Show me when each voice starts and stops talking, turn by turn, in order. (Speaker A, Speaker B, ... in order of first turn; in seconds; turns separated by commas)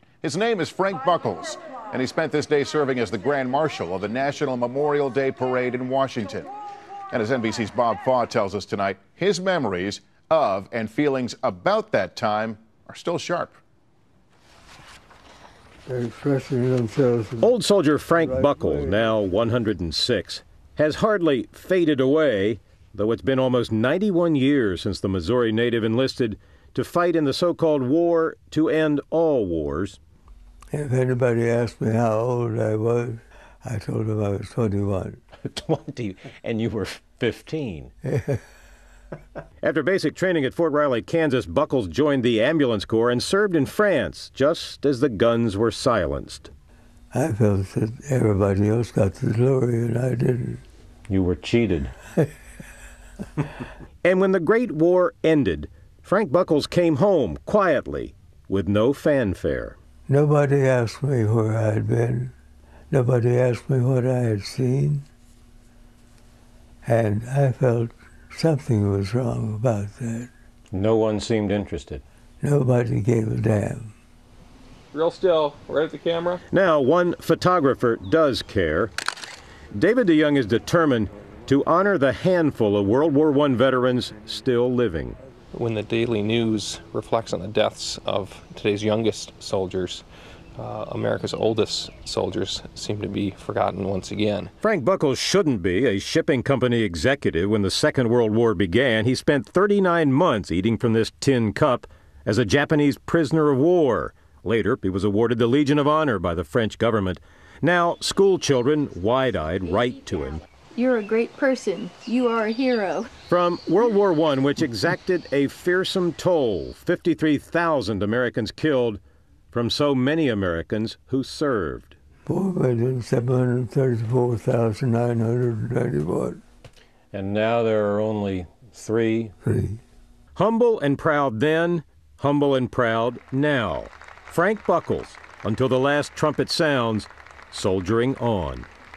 Speaker A: 0.2-6.5, Speaker A: 7.1-13.6, Speaker B: 15.9-17.5, Speaker C: 17.4-30.0, Speaker B: 18.2-19.1, Speaker B: 30.7-35.2, Speaker C: 35.4-37.9, Speaker B: 38.0-38.4, Speaker C: 39.6-46.5, Speaker B: 47.1-50.6, Speaker C: 51.1-51.9, Speaker C: 54.0-59.8, Speaker B: 60.1-62.3, Speaker B: 62.9-65.0, Speaker B: 66.8-70.3, Speaker C: 70.7-72.0, Speaker B: 72.4-73.9, Speaker D: 75.0-76.3, Speaker C: 76.5-78.9, Speaker C: 79.7-85.2, Speaker D: 85.5-90.0, Speaker D: 90.6-94.5, Speaker C: 94.6-110.4, Speaker E: 110.7-113.1, Speaker C: 113.3-119.0, Speaker C: 119.5-122.0, Speaker B: 122.2-126.4, Speaker C: 127.1-129.3, Speaker B: 129.4-129.8, Speaker C: 130.3-138.7